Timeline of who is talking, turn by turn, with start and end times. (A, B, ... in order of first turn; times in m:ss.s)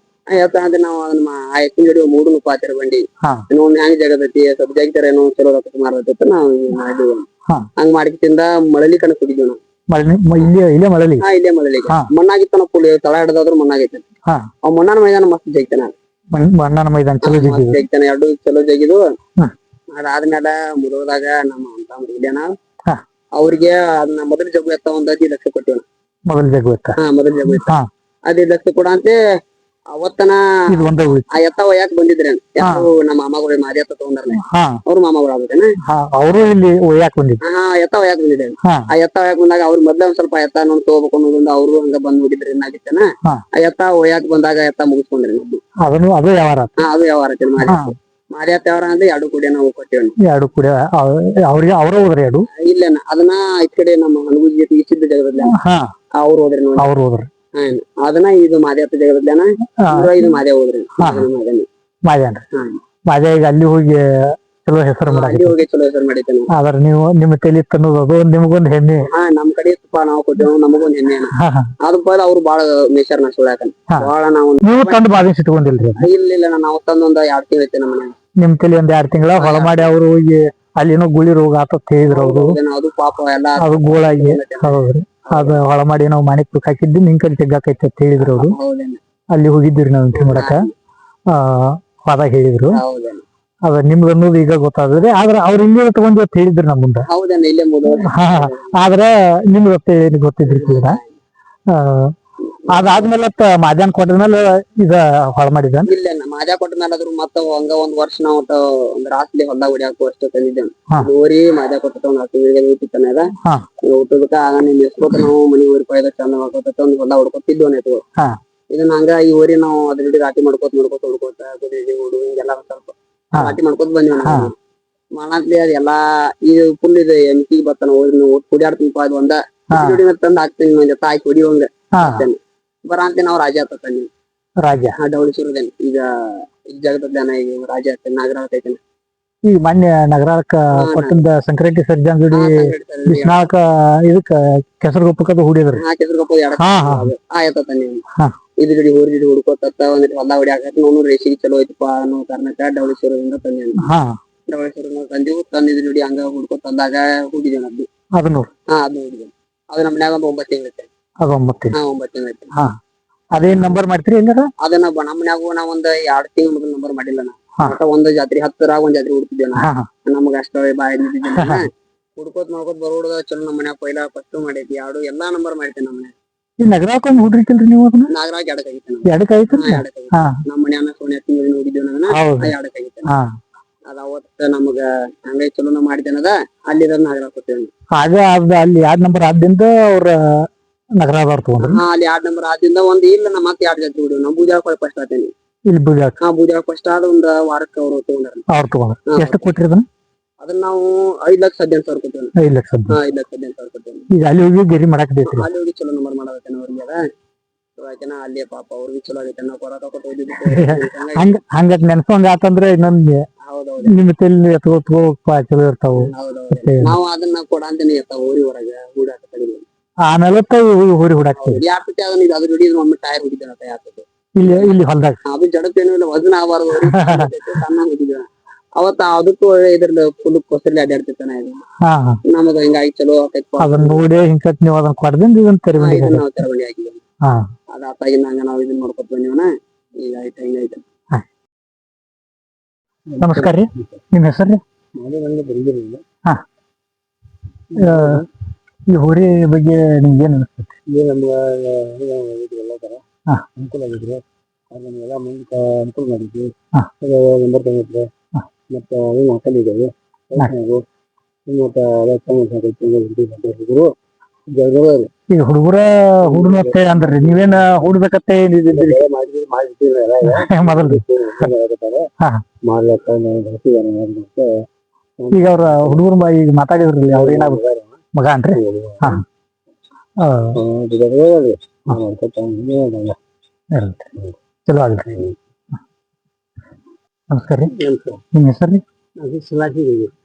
0:00.3-0:07.2 A
0:07.8-0:09.6 A
0:09.9-0:11.2 B
0:11.2-0:14.0 A
0:14.6-0:15.9 A
0:16.3-0:17.8 B
0:17.2-0:19.0 A
0:19.9-0:22.5 A
0:23.4-0:25.8 A
0:26.3-0:27.9 B
0:27.0-0:27.7 A
0:28.3-0:29.2 A
0:30.0-0:35.7 A
0:30.7-0:31.2 B
0:32.6-0:32.9 B
0:34.4-0:34.8 B
0:35.8-0:37.4 B
0:37.4-0:45.6 A
0:38.6-0:38.9 B
0:45.8-0:46.8 B
0:46.8-0:50.1 A
0:47.6-0:47.9 B
0:50.2-0:52.5 B
0:52.6-0:55.5 A
0:55.4-0:55.9 B
0:56.2-0:56.9 A
0:56.8-0:57.3 B
0:57.6-1:01.6 A
0:59.8-1:00.3 B
1:01.0-1:01.3 B
1:02.1-1:02.4 B
1:02.5-1:02.8 A
1:03.1-1:05.6 B
1:05.1-1:06.5 A
1:06.5-1:09.1 B
1:09.1-1:15.0 A
1:11.4-1:11.7 B
1:14.6-1:16.0 B
1:16.0-1:18.1 A
1:18.4-1:22.6 B
1:19.4-1:19.9 A
1:22.0-1:24.7 A
1:23.6-1:28.6 B
1:25.3-1:25.6 A
1:28.2-1:29.0 A
1:29.3-1:30.7 B
1:30.2-1:30.7 A
1:31.3-1:32.8 B
1:32.7-1:33.2 A
1:33.6-1:37.1 B
1:37.1-1:38.8 A
1:38.0-1:41.0 B
1:40.5-1:41.1 A
1:41.7-1:42.1 B
1:42.7-1:45.9 B
1:45.9-1:53.3 A
1:53.8-1:58.0 A
1:58.7-2:04.5 A
2:04.2-2:04.5 B
2:05.1-2:14.1 A
2:09.7-2:10.0 B
2:12.0-2:12.2 B
2:14.6-2:15.0 B
2:15.0-2:18.8 A
2:19.5-2:25.8 B
2:20.8-2:21.2 A
2:22.3-2:23.5 A
2:25.8-2:28.0 A
2:26.6-2:27.1 B
2:28.6-2:33.8 A
2:33.8-2:34.1 B
2:34.5-2:37.9 A
2:38.2-2:38.5 B
2:38.7-2:40.9 A
2:41.2-2:41.8 B
2:41.7-2:42.5 A
2:43.3-2:44.5 B
2:44.6-2:56.1 A
2:49.6-2:49.9 B
2:56.6-2:58.1 B
2:58.1-3:03.1 A
2:59.1-3:00.4 B
3:02.1-3:02.5 B
3:03.9-3:07.7 A
3:08.0-3:10.5 B
3:11.0-3:11.8 B
3:11.6-3:15.3 A
3:15.7-3:16.2 B
3:16.2-3:18.4 A
3:18.5-3:19.8 B
3:19.1-3:19.4 A
3:20.4-3:22.3 A
3:22.4-3:23.0 B
3:22.9-3:24.1 A
3:24.1-3:25.5 B
3:25.3-3:27.0 A
3:27.8-3:31.4 A
3:30.4-3:33.3 B
3:33.4-3:34.0 A
3:33.8-3:37.0 B
3:36.0-3:39.6 A
3:40.1-3:41.6 B
3:41.4-3:44.7 A
3:44.4-3:45.2 B
3:45.2-3:51.6 A
3:46.8-3:47.3 B
3:51.8-3:52.2 B
3:52.3-3:54.0 A
3:53.6-3:56.4 B
3:55.8-3:57.0 A
3:57.7-4:00.8 A
4:03.1-4:04.0 C
4:03.2-4:04.6 B
4:05.0-4:06.0 C
4:07.7-4:08.2 C
4:07.8-4:08.2 B
4:08.9-4:10.7 B
4:10.9-4:13.0 C
4:13.6-4:18.1 C
4:18.7-4:20.8 C
4:21.5-4:23.9 C
4:24.5-4:25.1 C
4:25.3-4:29.0 B
4:26.3-4:27.7 C
4:28.7-4:32.1 C
4:30.3-4:31.0 B
4:32.6-4:34.6 C
4:35.2-4:36.0 C
4:35.3-4:37.6 B
4:37.0-4:38.0 C
4:38.1-4:39.2 B
4:38.5-4:39.2 C
4:40.2-4:40.6 B
4:40.6-4:43.2 C
4:43.7-4:44.1 B
4:44.7-4:45.2 B
4:47.3-4:47.7 B
4:47.7-4:48.2 C
4:48.3-4:48.8 B
4:49.2-4:50.1 C